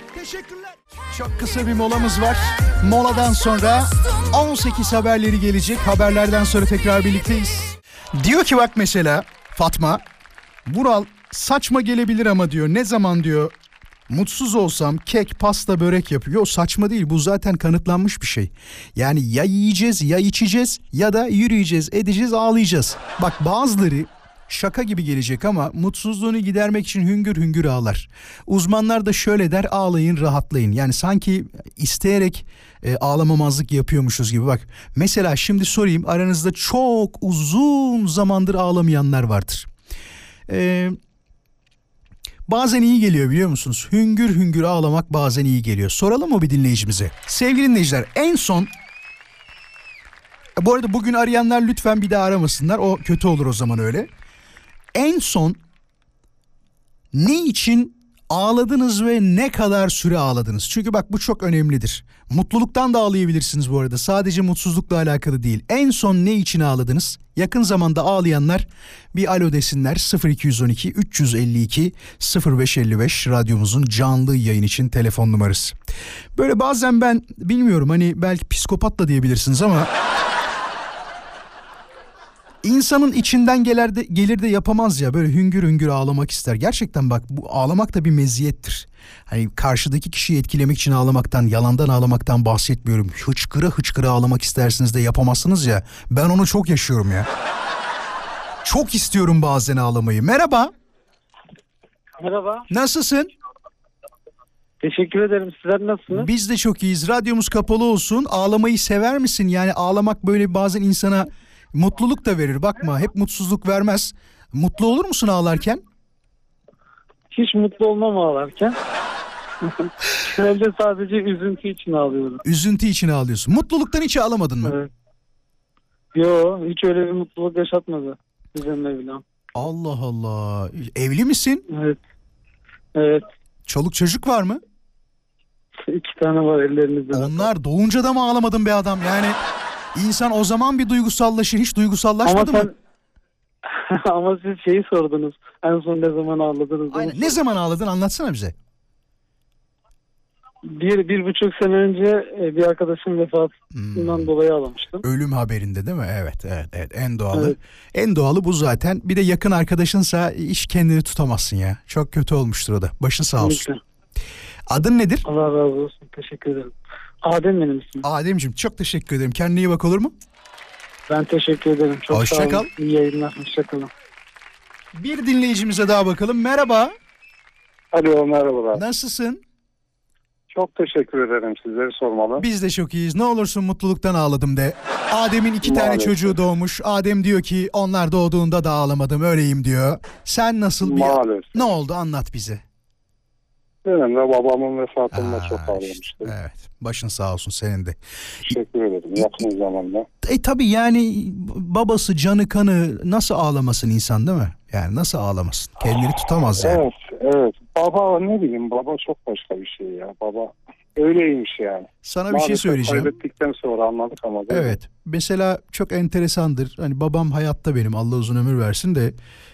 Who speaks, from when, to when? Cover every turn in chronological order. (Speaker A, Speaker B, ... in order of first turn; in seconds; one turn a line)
Speaker A: 0.1-10.0
Speaker A: 10.7-13.5
Speaker A: 14.1-39.7
Speaker A: 40.5-41.0
Speaker A: 42.5-48.7
Speaker A: 50.6-54.1
Speaker A: 54.9-55.6
Speaker A: 57.1-75.8
Speaker A: 76.3-79.9
Speaker A: 82.6-97.3
Speaker A: 98.6-100.7
Speaker B: 102.2-102.7
Speaker A: 102.7-103.3
Speaker B: 104.8-106.3
Speaker A: 106.1-115.8
Speaker B: 117.3-118.8
Speaker B: 119.6-122.4
Speaker A: 122.4-124.8
Speaker B: 124.6-124.9
Speaker B: 126.1-129.2
Speaker A: 129.6-131.7
Speaker B: 131.7-132.0
Speaker B: 132.9-133.2
Speaker A: 133.7-134.6
Speaker B: 135.9-137.5
Speaker A: 137.1-139.4
Speaker A: 139.9-142.7
Speaker B: 142.2-142.7
Speaker B: 143.7-147.4
Speaker A: 146.9-148.6
Speaker B: 150.7-155.0
Speaker A: 153.7-154.3
Speaker A: 155.0-163.7
Speaker B: 163.4-163.8
Speaker A: 164.7-165.2
Speaker B: 165.2-166.7
Speaker B: 167.2-168.1
Speaker A: 168.0-170.1
Speaker B: 171.1-173.9
Speaker A: 172.1-172.7
Speaker A: 174.9-176.9
Speaker C: 177.9-178.8
Speaker A: 178.7-179.4
Speaker C: 180.5-182.4
Speaker A: 182.4-192.6
Speaker C: 185.6-186.4
Speaker C: 190.8-191.7
Speaker C: 193.8-196.3
Speaker A: 195.1-198.5
Speaker C: 198.4-200.1
Speaker A: 199.2-199.4
Speaker A: 200.2-206.8
Speaker C: 206.6-214.8
Speaker A: 212.0-213.1
Speaker A: 214.5-219.2